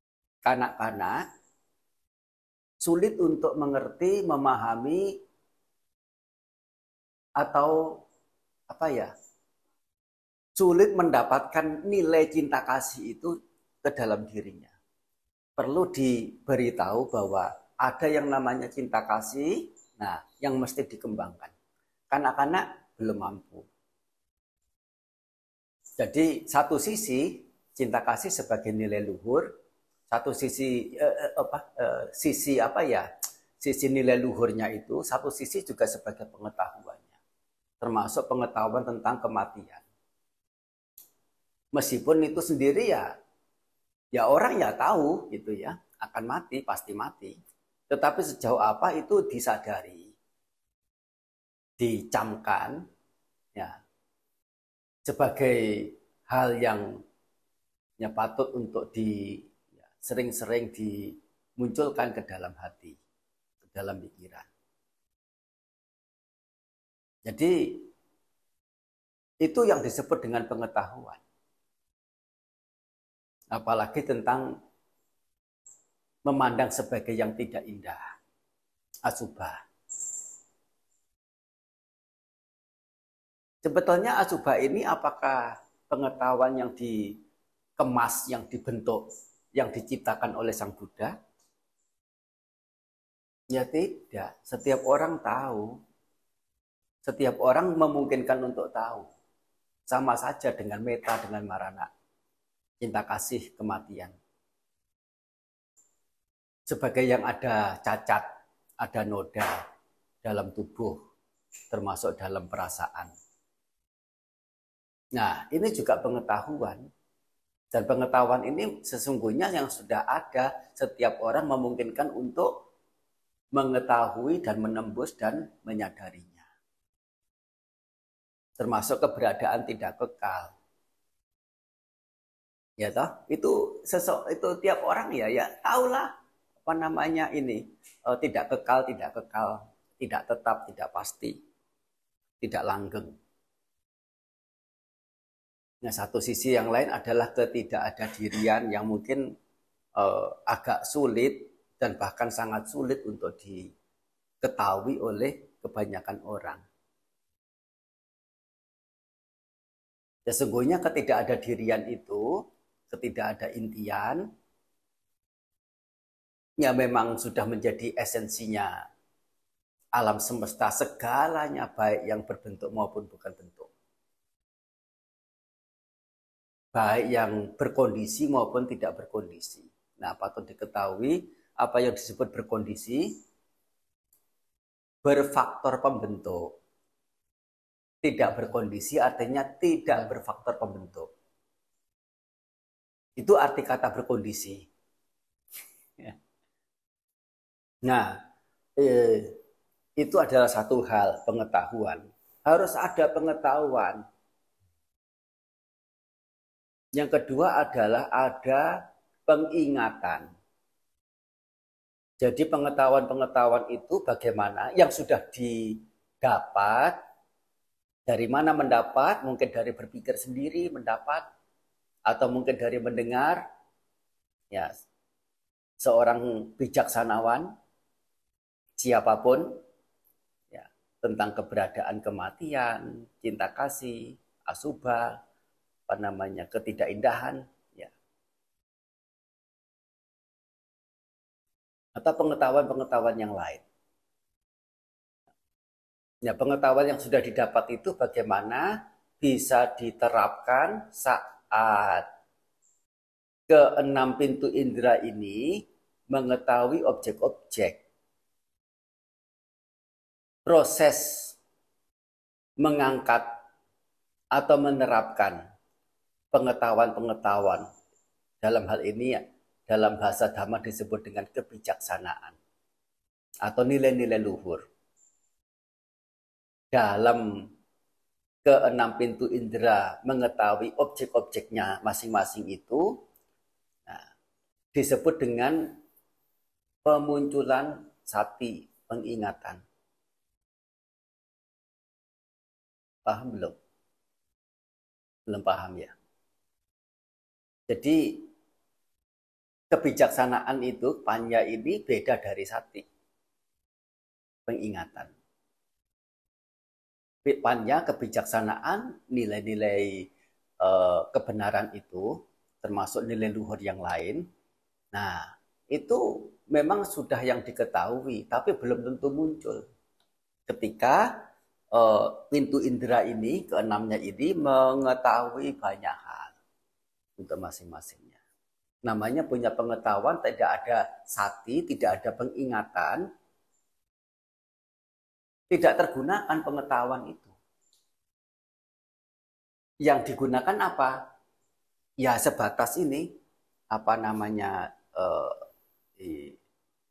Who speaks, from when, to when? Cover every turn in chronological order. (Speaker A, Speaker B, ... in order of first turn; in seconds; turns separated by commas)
Speaker A: 0.5-1.2, Speaker A: 2.8-5.2, Speaker A: 7.4-7.8, Speaker A: 8.7-9.1, Speaker A: 10.6-13.3, Speaker A: 13.8-14.7, Speaker A: 15.6-21.5, Speaker A: 22.1-23.7, Speaker A: 26.0-29.5, Speaker A: 30.1-33.1, Speaker A: 33.6-37.1, Speaker A: 37.8-39.8, Speaker A: 41.7-43.1, Speaker A: 44.1-47.4, Speaker A: 47.9-50.1, Speaker A: 51.8-52.8, Speaker A: 55.1-56.9, Speaker A: 58.0-63.0, Speaker A: 63.6-64.5, Speaker A: 67.2-67.9, Speaker A: 69.4-71.2, Speaker A: 73.5-74.5, Speaker A: 76.3-78.0, Speaker A: 79.1-79.6, Speaker A: 83.6-87.1, Speaker A: 87.8-91.1, Speaker A: 93.5-95.8, Speaker A: 97.1-99.1, Speaker A: 99.9-101.9, Speaker A: 102.8-104.2, Speaker A: 106.7-108.2, Speaker A: 108.8-109.6, Speaker A: 110.2-111.0, Speaker A: 111.7-113.1, Speaker A: 115.2-116.8, Speaker A: 117.7-122.6, Speaker A: 123.5-126.5, Speaker A: 128.6-130.5, Speaker A: 132.8-136.1, Speaker A: 136.7-141.4, Speaker A: 142.4-143.1, Speaker A: 145.8-149.2, Speaker A: 150.0-153.7, Speaker A: 154.4-156.6, Speaker A: 160.3-162.3, Speaker A: 162.9-164.2, Speaker A: 166.6-168.7, Speaker A: 169.9-173.7, Speaker A: 176.7-183.2, Speaker A: 185.0-186.6, Speaker A: 188.0-191.1, Speaker A: 193.2-194.6, Speaker A: 197.8-198.2, Speaker A: 198.8-199.4, Speaker A: 200.0-204.0, Speaker A: 206.9-208.7, Speaker A: 209.3-210.3, Speaker A: 212.2-217.0, Speaker A: 218.1-221.2, Speaker A: 222.1-223.4, Speaker A: 224.5-224.8, Speaker A: 225.8-227.5, Speaker A: 228.8-229.6, Speaker A: 230.5-235.2, Speaker A: 235.9-237.9, Speaker A: 242.0-243.6, Speaker A: 246.2-248.7, Speaker A: 249.2-252.1, Speaker A: 253.5-257.8, Speaker A: 260.5-261.4, Speaker A: 262.6-263.3, Speaker A: 264.4-265.4, Speaker A: 266.3-267.7, Speaker A: 268.4-272.4, Speaker A: 273.4-274.6, Speaker A: 276.7-277.2, Speaker A: 278.4-283.0, Speaker A: 284.7-285.7, Speaker A: 286.9-289.6, Speaker A: 293.1-293.6, Speaker A: 295.3-295.9, Speaker A: 297.7-298.3, Speaker A: 299.7-302.8, Speaker A: 304.5-305.1, Speaker A: 307.2-309.9, Speaker A: 310.6-314.2, Speaker A: 314.9-319.6, Speaker A: 320.5-321.1, Speaker A: 321.7-326.3, Speaker A: 327.2-328.2, Speaker A: 328.9-333.1, Speaker A: 335.5-337.3, Speaker A: 339.8-340.9, Speaker A: 342.0-343.1, Speaker A: 343.7-345.4, Speaker A: 346.0-346.4